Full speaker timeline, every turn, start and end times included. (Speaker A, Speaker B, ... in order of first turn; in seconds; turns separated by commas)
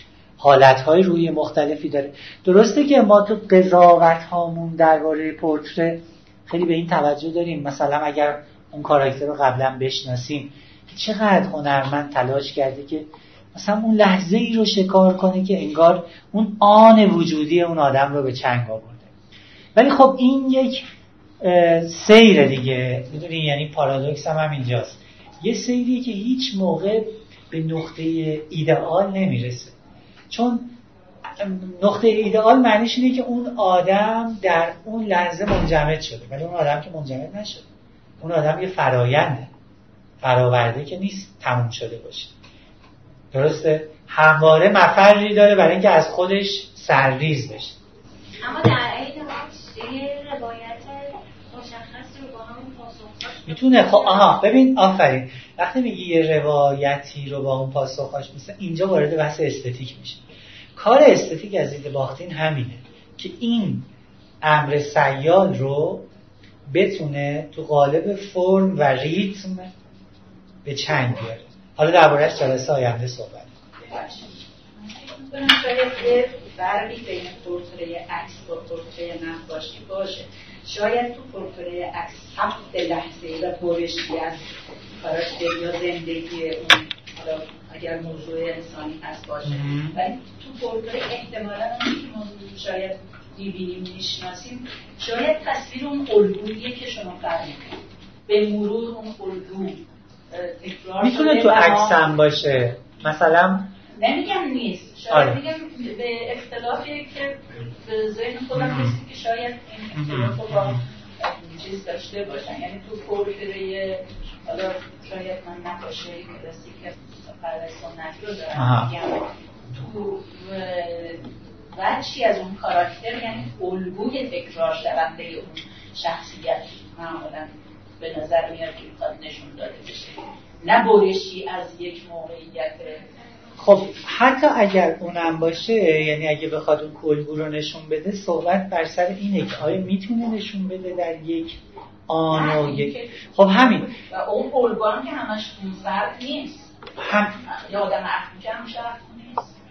Speaker A: 0.4-19.1, Speaker A: 19.8-20.9, Speaker A: 21.4-29.7, Speaker A: 30.3-30.8, Speaker A: 31.4-37.7, Speaker A: 38.2-39.5, Speaker A: 40.2-42.4, Speaker A: 43.3-47.8, Speaker B: 48.4-54.6, Speaker A: 53.5-60.2, Speaker A: 60.8-63.9, Speaker A: 64.4-66.1, Speaker A: 66.7-69.7, Speaker A: 70.7-73.5, Speaker C: 73.9-84.4, Speaker C: 85.0-97.8, Speaker A: 89.5-90.0, Speaker C: 98.3-102.0, Speaker A: 101.0-103.7, Speaker C: 104.0-133.1, Speaker A: 105.1-105.4, Speaker A: 108.5-109.0, Speaker A: 110.0-110.8, Speaker A: 118.5-118.9, Speaker A: 133.6-144.0, Speaker C: 142.3-143.2, Speaker C: 144.1-146.7, Speaker A: 147.0-147.4, Speaker C: 147.4-149.5